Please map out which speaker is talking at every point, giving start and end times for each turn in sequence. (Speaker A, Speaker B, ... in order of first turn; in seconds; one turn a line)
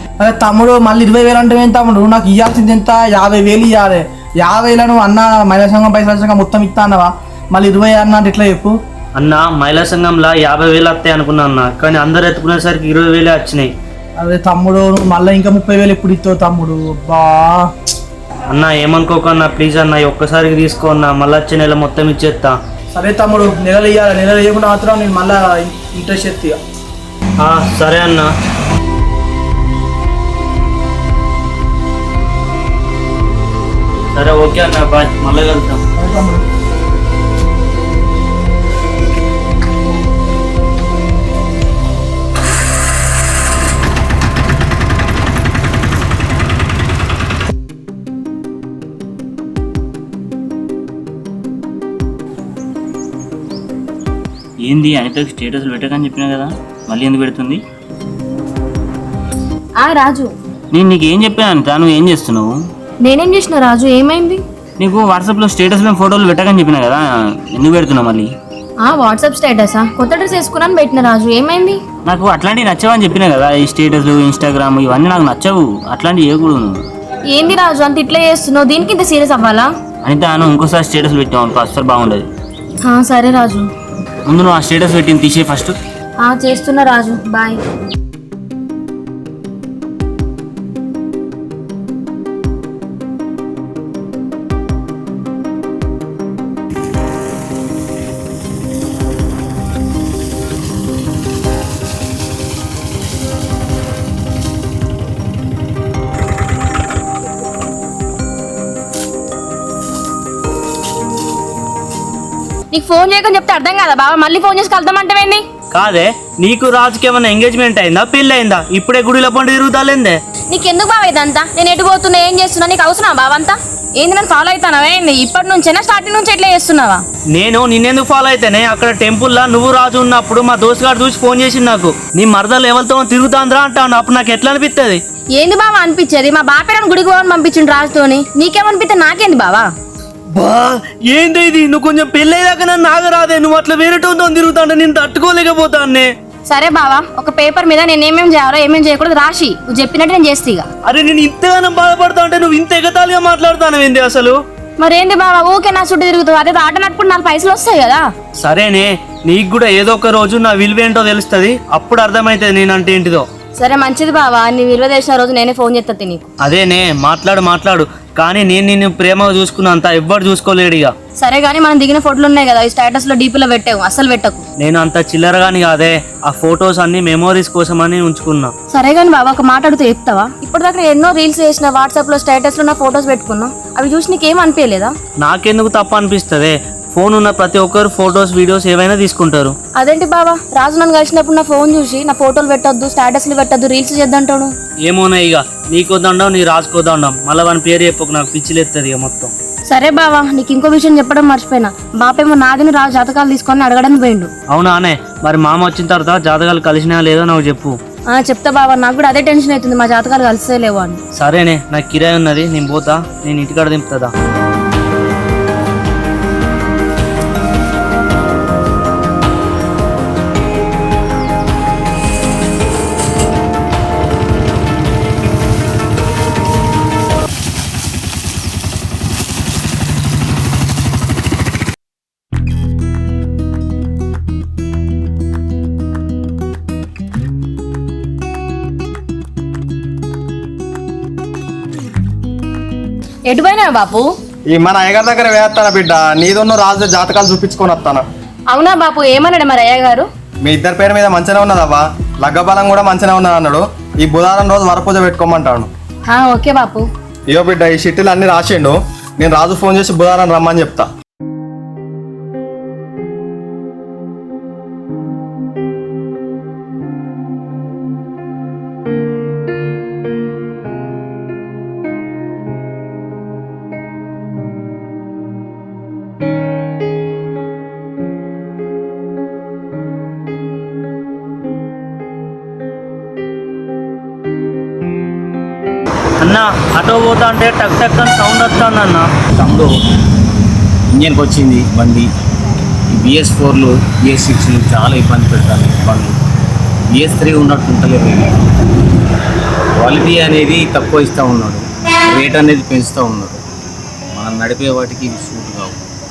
Speaker A: 0.2-8.7
Speaker B: 9.2-13.7
Speaker A: 14.2-17.7
Speaker B: 18.5-22.6
Speaker A: 22.9-26.6
Speaker B: 27.4-28.3
Speaker B: 34.1-35.8
Speaker A: 36.0-36.4
Speaker C: 54.6-57.6
Speaker D: 59.8-60.3
Speaker C: 60.7-62.5
Speaker D: 63.0-64.4
Speaker C: 64.8-68.3
Speaker D: 68.8-71.8
Speaker C: 72.0-76.8
Speaker D: 77.3-79.7
Speaker C: 80.0-82.3
Speaker D: 82.8-83.7
Speaker C: 84.2-85.8
Speaker D: 86.2-87.6
Speaker D: 112.7-115.4
Speaker B: 115.7-120.2
Speaker D: 120.5-127.0
Speaker B: 127.3-135.0
Speaker D: 135.3-139.7
Speaker B: 140.3-146.1
Speaker D: 146.5-150.7
Speaker B: 150.8-154.4
Speaker D: 154.8-158.1
Speaker B: 158.4-163.3
Speaker D: 163.6-166.3
Speaker B: 166.4-170.9
Speaker D: 171.2-174.4
Speaker B: 174.6-178.5
Speaker D: 178.7-184.9
Speaker B: 185.2-189.6
Speaker D: 189.8-194.5
Speaker B: 194.8-199.3
Speaker D: 199.7-204.3
Speaker B: 204.5-207.8
Speaker D: 208.1-211.0
Speaker B: 211.1-214.1
Speaker D: 243.3-244.1
Speaker E: 244.5-248.0
Speaker D: 248.5-250.1
Speaker E: 250.4-255.7
Speaker D: 256.1-256.9
Speaker E: 257.3-260.9
Speaker B: 286.2-289.1
Speaker F: 289.4-289.7
Speaker F: 290.9-292.1
Speaker F: 292.9-296.1
Speaker F: 296.9-298.3
Speaker F: 299.8-303.4
Speaker F: 304.1-305.9